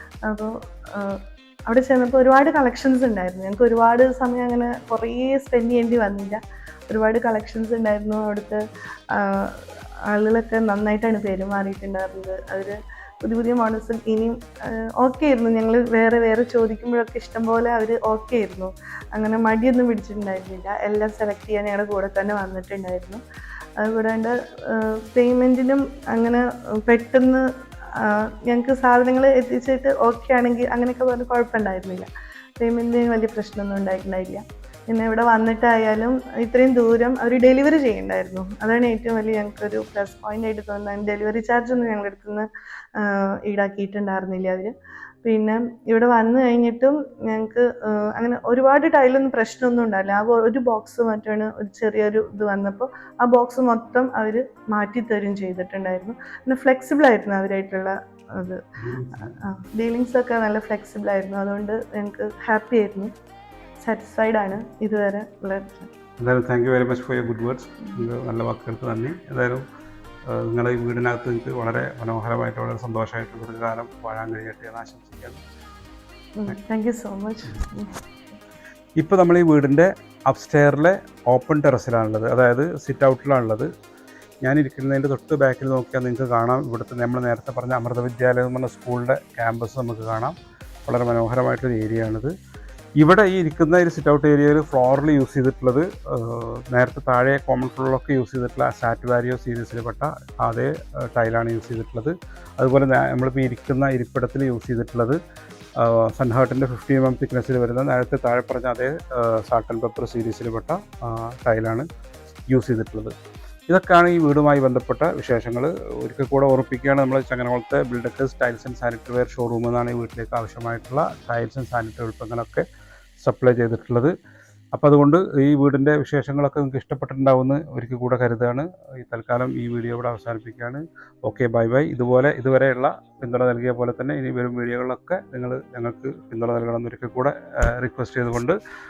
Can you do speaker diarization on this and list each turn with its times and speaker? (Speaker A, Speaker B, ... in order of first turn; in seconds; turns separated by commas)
Speaker A: 0.2-23.2, Speaker A: 23.8-44.7, Speaker A: 45.2-58.6, Speaker B: 58.9-59.2, Speaker A: 59.1-63.1, Speaker A: 63.8-65.9, Speaker B: 66.2-69.6, Speaker B: 70.2-75.4, Speaker A: 76.4-78.0, Speaker B: 79.0-83.7, Speaker B: 84.4-90.3, Speaker B: 90.9-92.3, Speaker B: 93.0-105.2, Speaker B: 105.8-111.9, Speaker B: 112.5-113.1, Speaker B: 113.7-122.7, Speaker B: 123.2-124.1, Speaker B: 124.7-138.6